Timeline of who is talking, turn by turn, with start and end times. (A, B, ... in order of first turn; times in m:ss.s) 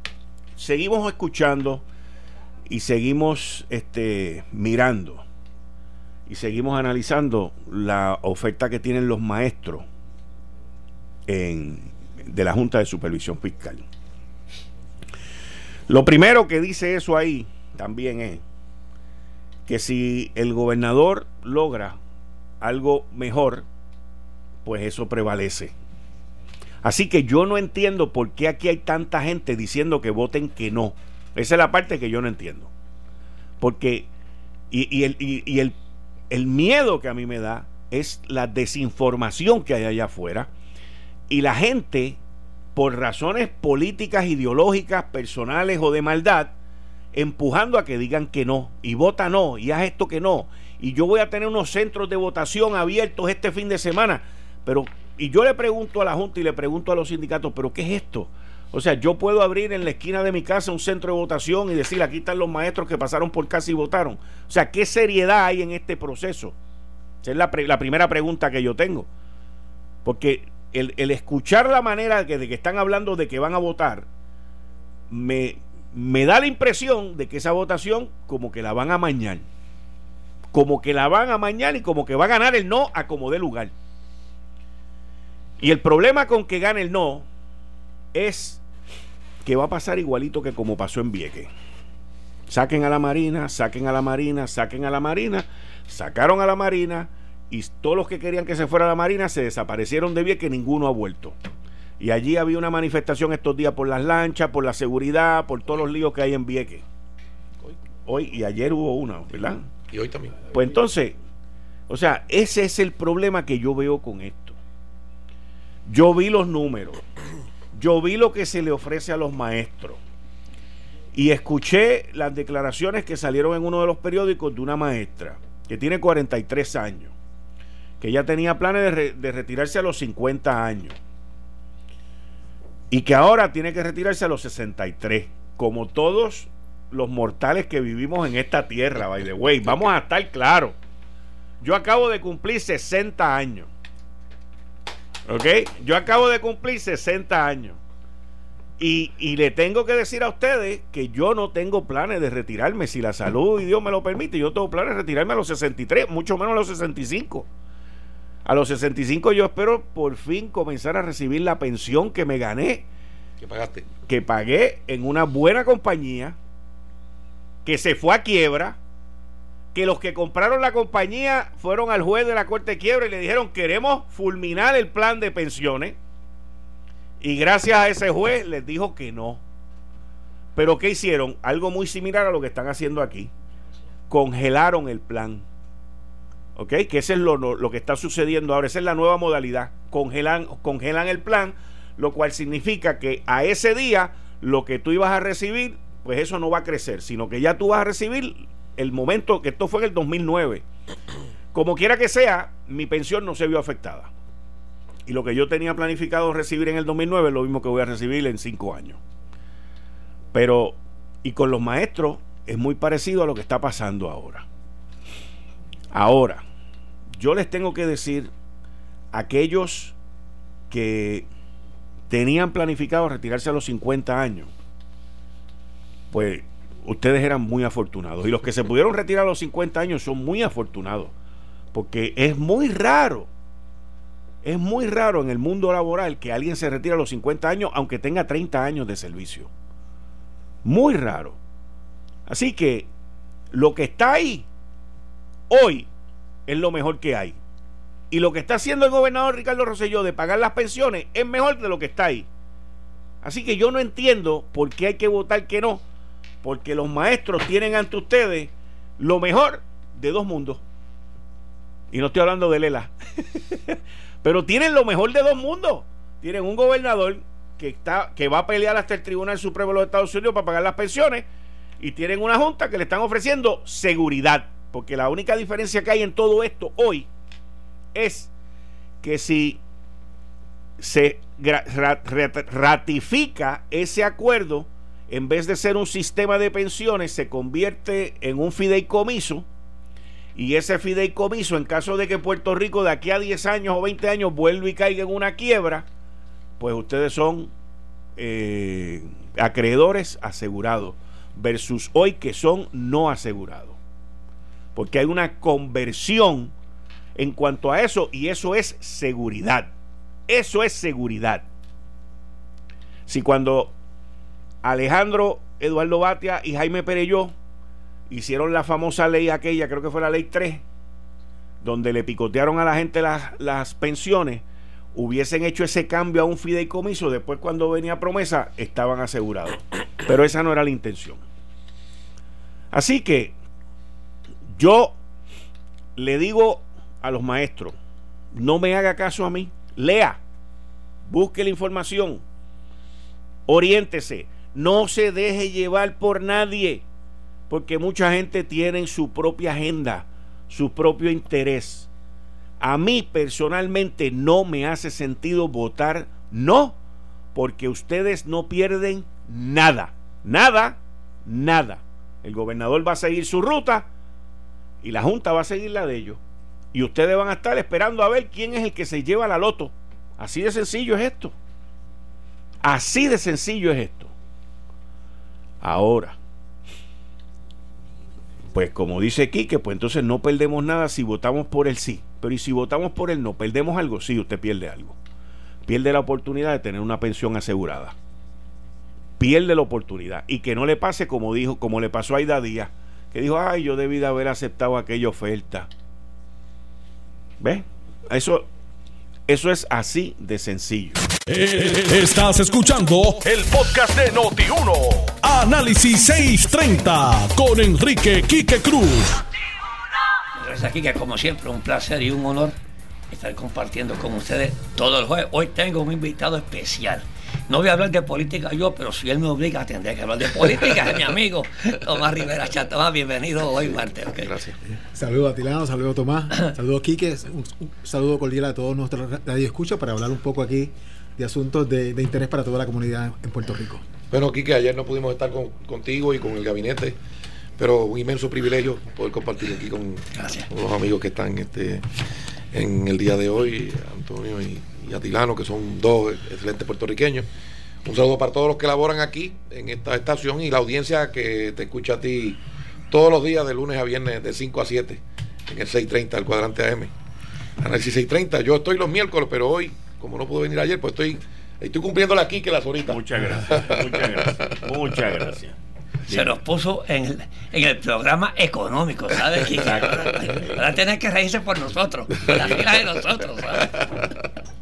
0:00.6-0:01.8 A
0:02.7-0:05.2 A
0:06.3-0:09.9 A
0:11.3-0:13.8 A
0:15.9-0:18.4 A
0:19.7-0:22.0 A
0:22.6-0:23.7 A
0:24.6-0:25.7 A
0:26.8-0:32.7 A
0:33.6-0:34.1 A
0:34.7-0:35.8 A
0:36.3-0:40.5 A
0:41.3-0:42.2 A
0:42.8-0:46.5 A
0:47.2-1:06.6 A
1:07.2-1:09.1 A
1:10.0-1:14.1 A
1:15.1-1:19.5 A
1:20.5-1:23.7 A
1:25.6-1:27.3 A
1:28.1-1:28.6 A
1:29.4-1:31.5 A
1:32.5-1:41.4 A
1:42.0-1:46.8 A
1:48.1-1:49.7 A
1:49.9-1:50.4 B
1:50.5-1:51.2 A
1:51.9-1:54.6 A
1:55.9-1:57.0 A
1:57.8-2:00.0 A
2:01.1-2:07.1 A
2:08.0-2:11.0 A
2:12.9-2:20.8 A
2:21.6-2:23.7 A
2:25.3-2:27.8 A
2:28.8-2:37.5 A
2:38.4-2:42.9 A
2:43.4-2:43.9 B
2:44.1-2:46.4 A
2:47.6-2:48.8 A
2:49.7-2:56.0 A
2:57.2-2:59.4 A
3:00.6-3:03.3 A
3:04.1-3:05.5 A
3:06.6-3:20.6 A
3:21.5-3:24.1 A
3:25.1-3:29.0 A
3:30.3-3:34.5 A
3:35.9-3:36.4 A
3:37.2-3:38.3 A
3:39.1-3:40.0 A
3:40.7-3:41.3 A
3:42.1-3:44.5 A
3:46.1-3:51.1 A
3:51.7-3:53.3 A
3:54.4-3:59.5 A
4:00.6-4:01.4 A
4:02.3-4:02.9 A
4:03.5-4:04.5 A
4:05.5-4:05.9 A
4:06.5-4:07.4 A
4:08.1-4:12.3 A
4:13.2-4:15.8 A
4:16.4-4:20.6 A
4:21.9-4:31.3 A
4:31.8-4:37.1 A
4:37.9-4:38.3 A
4:39.0-4:39.6 A
4:40.8-4:49.5 A
4:50.4-4:55.9 A
4:56.6-4:57.5 A
4:58.2-5:03.8 A
5:04.8-5:06.5 A
5:07.2-5:09.7 A
5:10.3-5:11.5 A
5:13.1-5:13.8 A
5:14.6-5:17.4 A
5:18.1-5:20.6 A
5:21.6-5:24.4 A
5:25.0-5:31.2 A
5:32.7-5:33.3 A
5:34.6-5:35.0 A
5:36.0-5:37.8 A
5:38.3-5:40.2 A
5:41.1-5:42.2 A
5:43.5-5:46.8 A
5:47.5-5:51.9 A
5:52.6-5:56.8 A
5:57.4-6:03.9 A
6:04.8-6:06.2 A
6:06.7-6:11.3 A
6:12.6-6:14.1 A
6:15.6-6:16.2 A
6:18.5-6:25.0 A
6:25.7-6:28.0 A
6:29.2-6:35.7 A
6:37.4-6:38.5 A
6:39.3-6:41.0 A
6:41.3-6:49.2 C
6:50.4-6:52.5 D
6:53.1-7:04.3 D
7:04.2-7:04.6 B
7:04.9-7:13.8 E
7:14.1-7:17.0 B
7:17.6-7:21.9 B
7:20.2-7:20.5 D
7:22.5-7:27.3 B
7:27.8-7:36.9 B
7:37.6-7:44.6 B
7:42.9-7:45.6 A
7:46.1-7:46.4 A
7:46.1-7:53.9 D
7:49.5-7:50.6 A
7:52.3-7:52.6 B
7:52.3-7:52.6 A